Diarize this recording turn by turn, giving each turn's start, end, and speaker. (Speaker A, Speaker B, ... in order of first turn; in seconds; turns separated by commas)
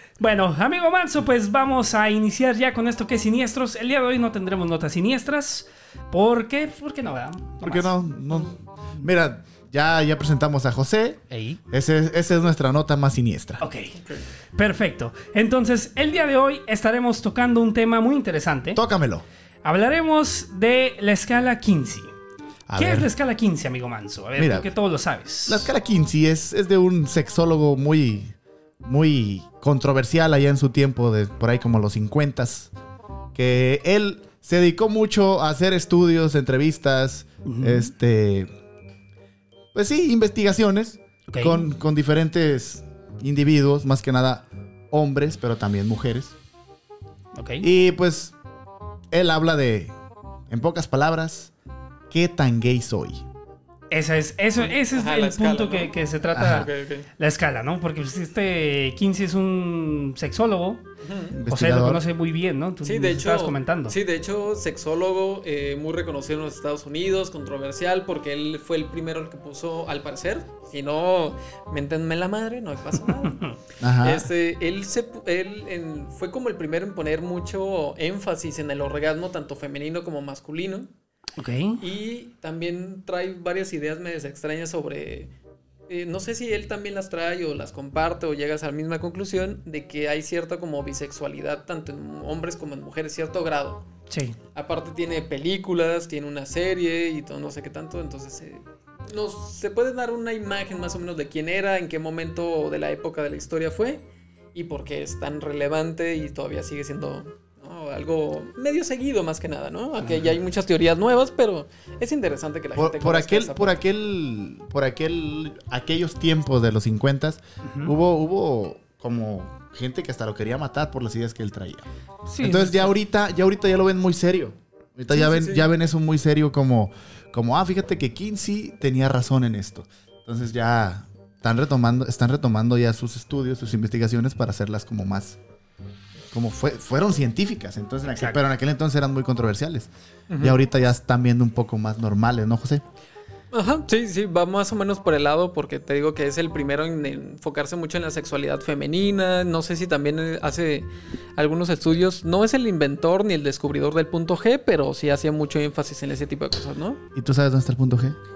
Speaker A: 0.2-8.4, Speaker B: 7.6-13.6, Speaker A: 11.3-11.6, Speaker A: 13.6-14.0, Speaker C: 13.9-14.2, Speaker A: 14.5-18.8, Speaker B: 18.7-19.2, Speaker A: 19.6-22.1, Speaker B: 22.7-23.1, Speaker A: 22.8-25.7, Speaker B: 24.4-24.7, Speaker B: 25.4-32.7, Speaker B: 33.3-38.5, Speaker A: 37.4-37.9, Speaker B: 39.7-46.3, Speaker A: 41.3-41.7, Speaker A: 47.3-47.7, Speaker B: 47.6-48.3, Speaker B: 49.1-49.9, Speaker B: 50.5-51.5, Speaker B: 52.1-53.2, Speaker A: 53.9-60.8, Speaker C: 54.6-57.1, Speaker B: 56.3-56.7, Speaker C: 61.0-61.3, Speaker B: 61.3-62.0, Speaker A: 61.5-64.0, Speaker C: 62.8-73.4, Speaker A: 73.2-73.5, Speaker B: 73.8-74.3, Speaker C: 74.0-80.9, Speaker A: 81.4-81.8, Speaker C: 81.8-85.3, Speaker C: 85.9-93.8, Speaker A: 94.1-94.4, Speaker C: 94.5-113.8, Speaker B: 112.8-121.9, Speaker A: 117.6-117.9, Speaker A: 122.3-122.9, Speaker B: 122.4-135.4, Speaker C: 125.1-125.7, Speaker B: 136.3-142.8, Speaker A: 138.1-138.4, Speaker C: 140.3-140.6, Speaker C: 143.5-157.0, Speaker B: 157.1-158.2